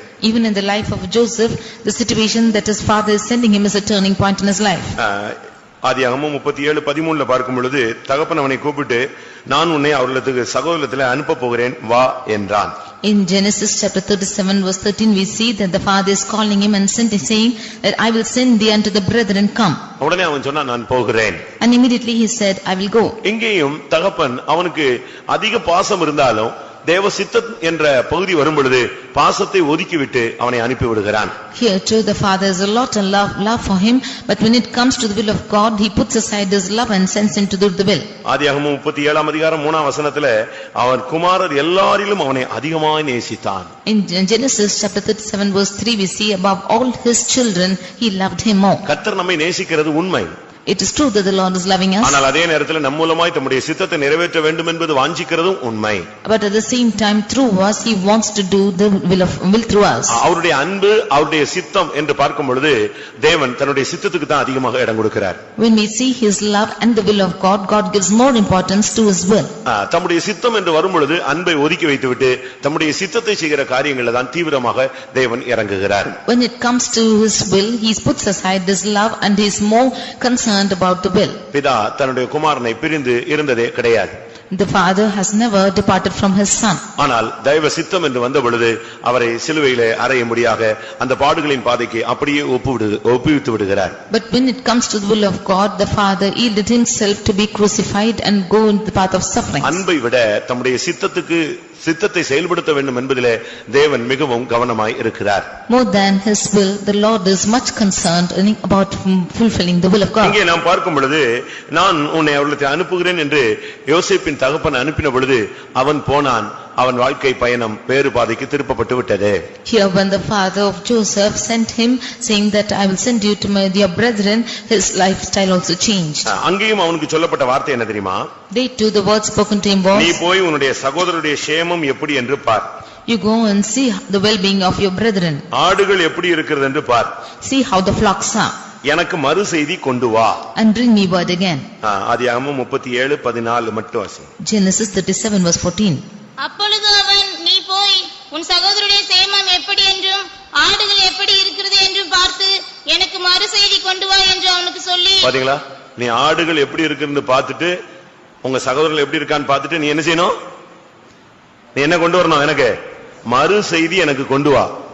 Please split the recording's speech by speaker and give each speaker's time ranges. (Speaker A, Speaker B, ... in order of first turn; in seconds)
Speaker A: 0.2-5.0, 13.0-19.8, 21.6-23.2, 31.5-38.1, 43.9-48.8, 50.7-52.2, 56.2-60.2, 65.6-69.5, 76.2-81.4, 84.5-86.8, 94.1-99.8, 105.7-110.4, 119.7-126.3, 128.5-130.2, 133.1-135.4, 137.4-138.5, 140.6-141.7, 144.4-146.0
Speaker B: 5.0-12.7, 20.0-21.4, 23.2-31.3, 38.2-43.7, 48.9-50.3, 52.0-56.1, 60.1-65.4, 69.7-76.2, 81.5-84.2, 87.0-94.0, 99.6-105.5, 110.2-119.4, 126.3-128.2, 129.9-132.7, 135.5-137.1, 138.9-140.4, 141.8-144.3, 155.2-157.7, 158.4-160.3, 161.8-162.7, 163.3-164.7
Speaker C: 146.4-155.3